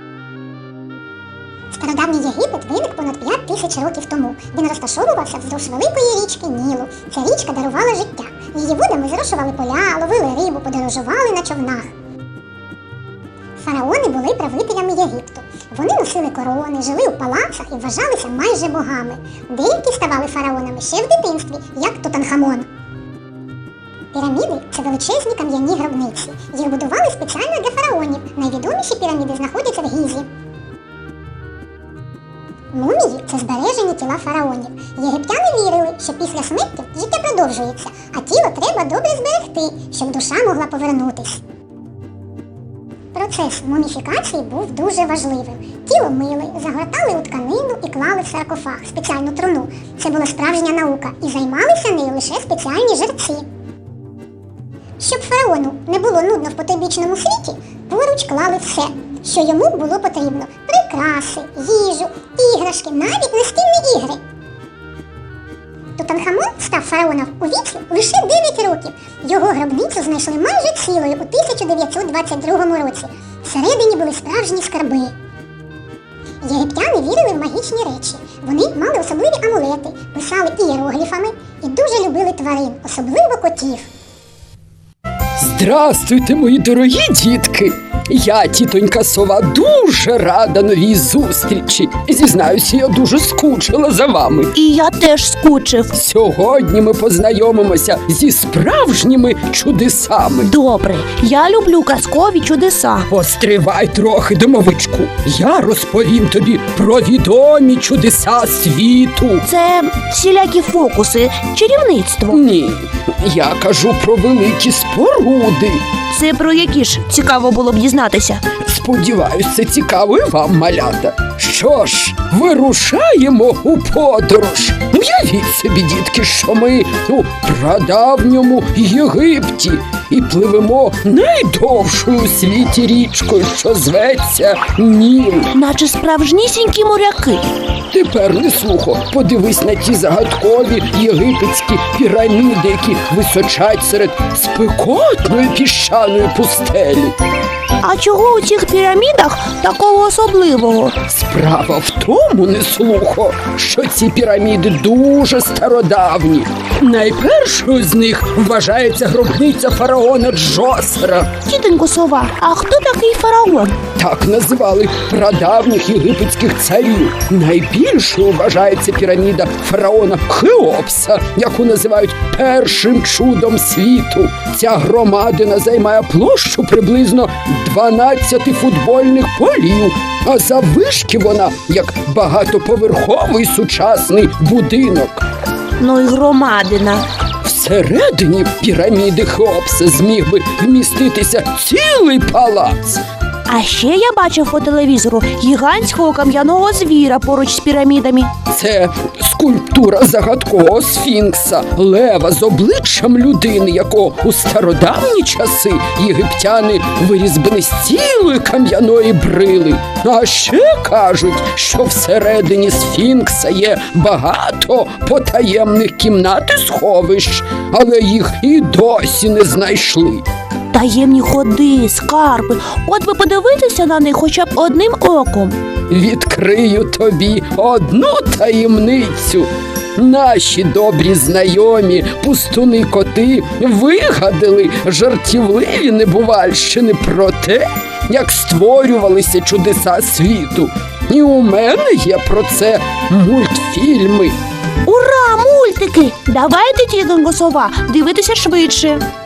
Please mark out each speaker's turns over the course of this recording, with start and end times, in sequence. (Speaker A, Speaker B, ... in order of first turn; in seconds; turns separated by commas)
Speaker A: 1.7-11.9, Speaker A: 13.6-22.7, Speaker A: 24.1-30.3, Speaker A: 32.7-41.4, Speaker A: 43.1-53.4, Speaker A: 55.0-64.2, Speaker A: 66.0-75.1, Speaker A: 76.4-83.9, Speaker B: 85.4-94.5, Speaker C: 94.5-95.9, Speaker B: 95.9-100.5, Speaker C: 100.4-103.1, Speaker B: 103.1-109.4, Speaker C: 109.4-112.4, Speaker B: 112.3-115.8, Speaker C: 116.1-118.4, Speaker B: 118.6-135.5, Speaker C: 135.5-137.4, Speaker B: 137.9-147.1, Speaker C: 147.8-151.0, Speaker B: 151.1-161.3, Speaker C: 161.4-163.8, Speaker B: 164.0-185.2, Speaker C: 185.8-187.1, Speaker B: 187.4-193.0, Speaker C: 193.5-198.3, Speaker B: 198.5-220.2, Speaker C: 220.7-225.6, Speaker B: 225.9-244.3, Speaker C: 244.8-249.0